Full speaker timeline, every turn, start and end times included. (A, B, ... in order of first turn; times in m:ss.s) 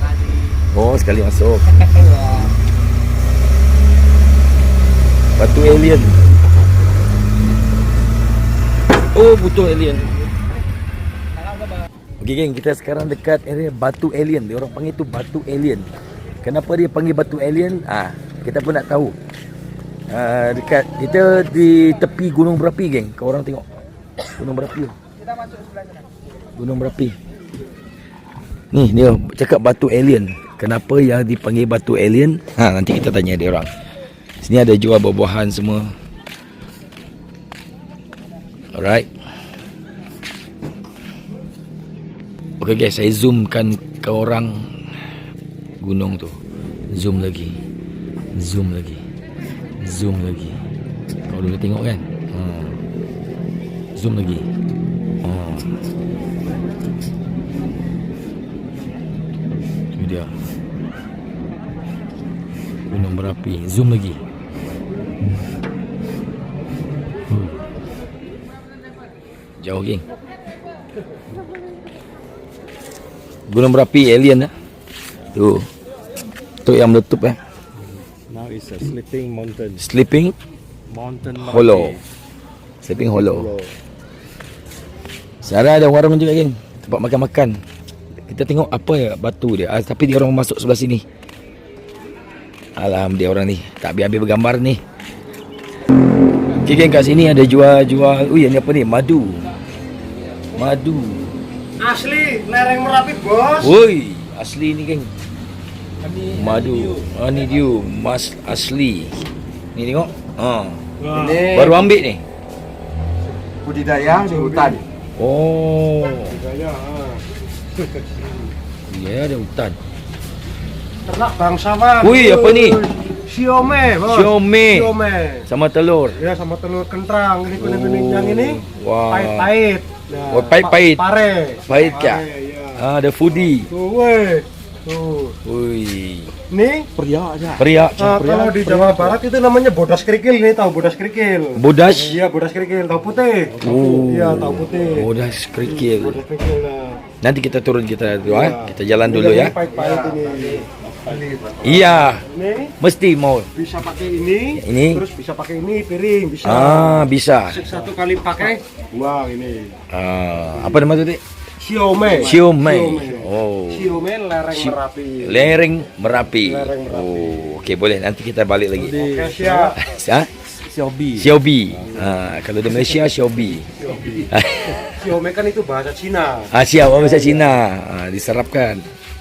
0:00.7-0:01.9 A
0:02.0-0:02.5 B
0:05.4-0:06.2 A
0:09.1-0:10.1 A
0:12.2-0:15.9 A
0:16.4-0:19.2 A
0:20.1-0:23.6 A
0:24.3-0:25.0 A
0:26.6-0:27.2 A
0:28.7-0:33.7 A
0:34.4-0:35.9 A
0:38.7-0:39.1 A
0:42.6-0:44.7 A
0:45.8-0:46.4 A
0:46.9-0:47.6 A
0:48.3-0:49.0 A
0:49.8-0:50.6 A
0:51.3-0:52.8 A
0:53.9-0:54.5 A
0:55.2-0:55.7 A
0:59.9-1:00.3 A
1:02.9-1:04.2 A
1:07.3-1:07.6 A
1:09.6-1:10.0 A
1:13.5-1:14.5 A
1:15.3-1:15.7 A
1:16.6-1:17.4 A
1:18.3-1:19.8 B
1:19.8-1:20.3 A
1:20.9-1:22.0 B
1:21.3-1:22.0 A
1:22.8-1:23.5 A
1:23.1-1:23.8 B
1:25.4-1:27.6 A
1:28.3-1:31.0 A
1:32.8-1:34.8 A
1:36.5-1:39.4 A
1:40.5-1:41.3 A
1:41.8-1:43.7 C
1:43.6-1:45.1 A
1:46.2-1:49.2 A
1:49.7-1:50.8 A
1:51.0-1:51.7 C
1:51.1-1:51.6 B
1:51.4-1:52.2 A
1:53.6-1:54.8 B
1:53.9-1:54.8 C
1:55.2-1:56.4 A
1:56.2-1:57.2 C
1:58.0-1:58.3 C
1:58.9-1:59.8 A
2:01.0-2:05.5 C
2:02.0-2:02.8 A
2:04.0-2:04.9 A
2:05.4-2:06.2 A
2:06.2-2:12.8 C
2:07.6-2:09.5 A
2:10.3-2:11.0 A
2:11.6-2:13.7 A
2:13.5-2:15.4 C
2:15.4-2:16.3 A
2:16.5-2:16.9 C
2:17.0-2:17.6 B
2:17.6-2:18.3 A
2:18.0-2:25.1 C
2:18.2-2:19.1 B
2:21.6-2:22.2 A
2:23.6-2:26.2 A
2:25.6-2:27.0 C
2:27.2-2:29.6 A
2:28.2-2:31.6 C
2:29.7-2:31.8 B
2:31.6-2:32.3 A
2:32.1-2:32.7 C
2:32.8-2:33.5 A
2:33.5-2:39.8 C
2:34.6-2:35.0 A
2:36.4-2:37.6 A
2:39.9-2:41.2 A
2:41.6-2:45.6 C
2:42.1-2:44.0 A
2:44.5-2:49.1 A
2:46.4-2:47.6 C
2:48.8-2:49.4 B
2:48.9-2:49.8 C
2:49.6-2:50.3 A
2:50.6-2:51.3 B
2:51.1-2:54.9 A
2:53.8-2:54.3 C
2:54.8-2:57.5 C
2:56.5-2:58.9 A